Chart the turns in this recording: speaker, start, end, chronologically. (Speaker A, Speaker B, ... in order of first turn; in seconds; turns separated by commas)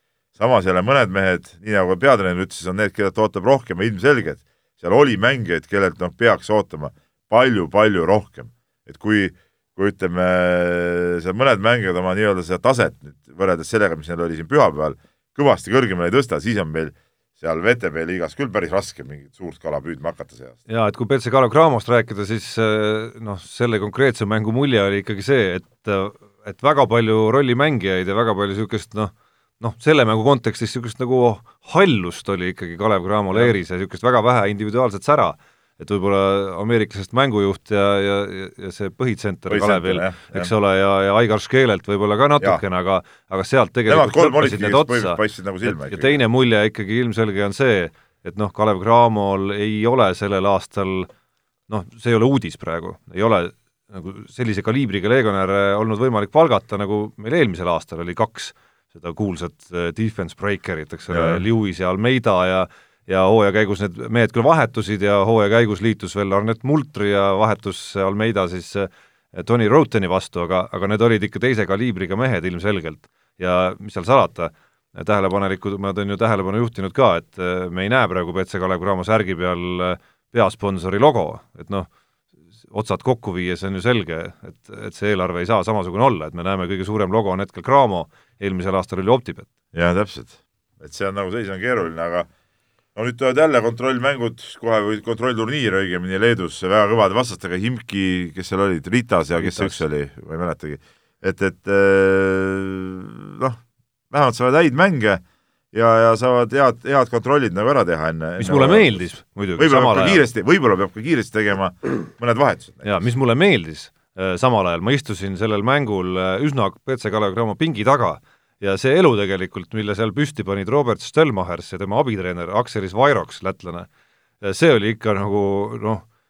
Speaker A: 0.3-20.6, Speaker B: 20.7-51.1, Speaker A: 39.5-40.5, Speaker A: 43.9-46.2, Speaker B: 51.7-81.9, Speaker A: 61.1-61.4, Speaker B: 82.7-89.5, Speaker A: 89.7-92.3, Speaker A: 92.9-103.6, Speaker B: 99.4-99.8, Speaker A: 104.1-105.2, Speaker A: 105.7-109.0, Speaker B: 108.4-110.2, Speaker A: 109.6-113.0, Speaker B: 112.8-123.9, Speaker B: 124.4-126.0